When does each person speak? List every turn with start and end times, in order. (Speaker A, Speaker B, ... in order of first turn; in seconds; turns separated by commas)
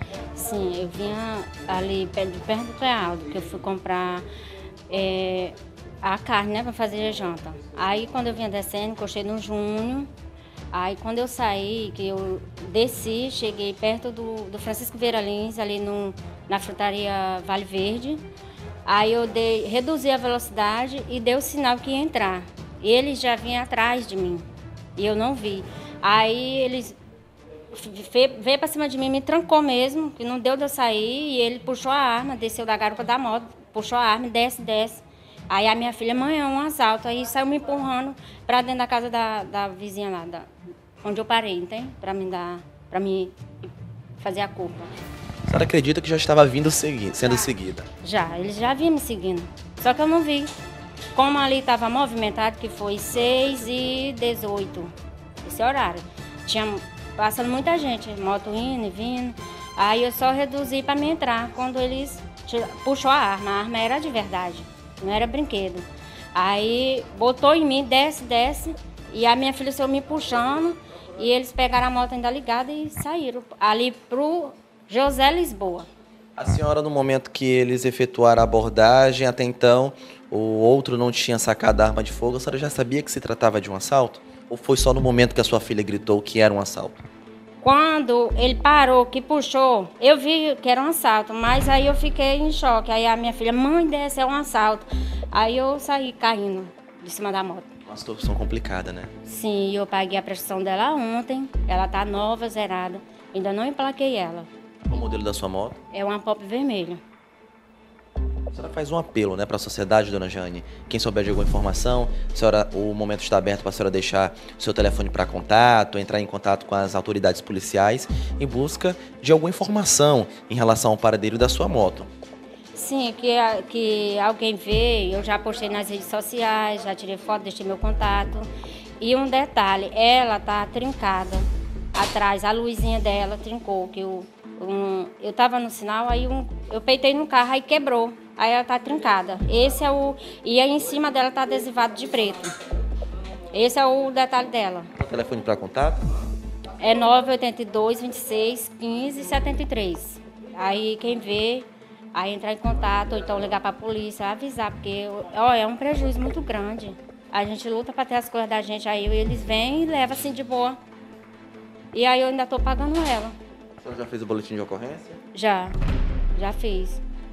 Speaker A: 0.3-4.3, Speaker A: 4.9-10.1, Speaker A: 10.7-18.2, Speaker A: 18.9-27.0, Speaker A: 27.7-40.5, Speaker A: 41.0-43.4, Speaker A: 44.2-44.9, Speaker B: 45.5-47.9, Speaker A: 47.2-47.5, Speaker A: 48.0-50.5, Speaker A: 51.1-54.9, Speaker A: 55.4-75.9, Speaker B: 76.4-87.0, Speaker A: 87.6-97.7, Speaker B: 97.9-99.1, Speaker A: 99.2-104.5, Speaker B: 104.9-105.8, Speaker A: 105.9-107.0, Speaker B: 108.5-122.1, Speaker A: 122.8-128.5, Speaker A: 129.0-142.5, Speaker A: 143.5-144.9, Speaker B: 145.0-146.1, Speaker A: 146.8-160.8, Speaker A: 161.9-163.4, Speaker B: 163.8-165.2, Speaker A: 165.3-165.8, Speaker A: 166.3-167.0